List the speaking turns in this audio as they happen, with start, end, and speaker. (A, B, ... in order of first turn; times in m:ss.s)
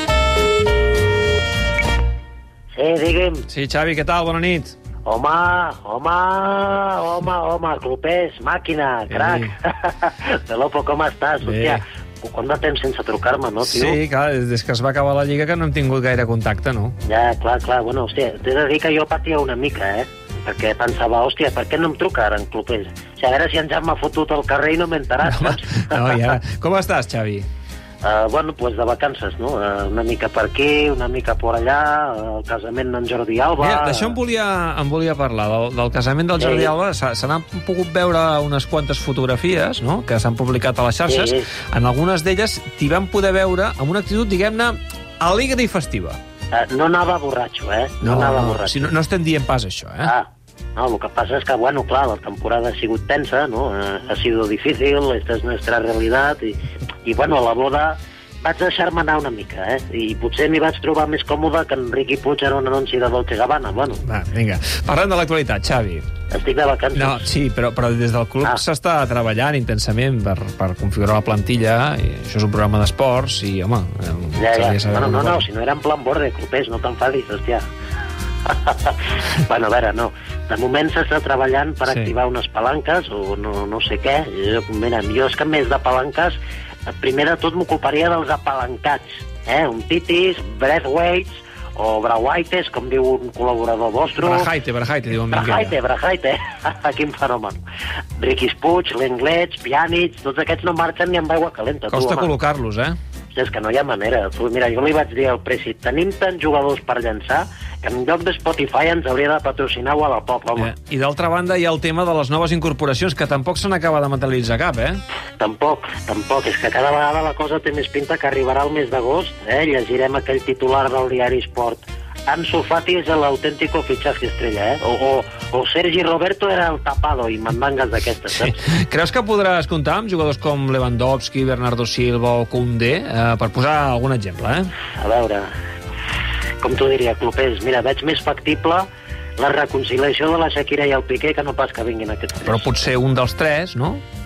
0:02.8-0:03.5 A
0:03.5-0:04.8 B
0:05.0-0:14.0 A
0:09.1-0:09.5 B
0:11.4-0:11.8 B
0:13.6-0:17.0 B
0:17.1-0:26.2 A
0:25.2-0:27.5 B
0:28.0-0:34.2 A
0:33.6-0:46.2 B
0:36.4-0:36.7 A
0:41.1-0:41.5 A
0:46.5-0:48.9 A
0:48.0-0:50.1 B
0:50.0-1:04.0 A
1:04.0-1:06.0 B
1:06.3-1:07.3 A
1:07.0-1:15.4 B
1:14.4-1:17.6 A
1:18.5-1:26.4 A
1:26.9-1:34.5 A
1:34.2-1:35.8 B
1:35.3-1:37.6 A
1:38.2-1:42.3 A
1:41.9-1:43.0 B
1:43.3-1:50.7 A
1:50.6-1:55.0 B
1:55.4-2:08.6 A
2:08.4-2:14.7 B
2:15.0-2:15.5 A
2:16.6-2:18.9 A
2:19.4-2:22.7 A
2:22.5-2:24.0 B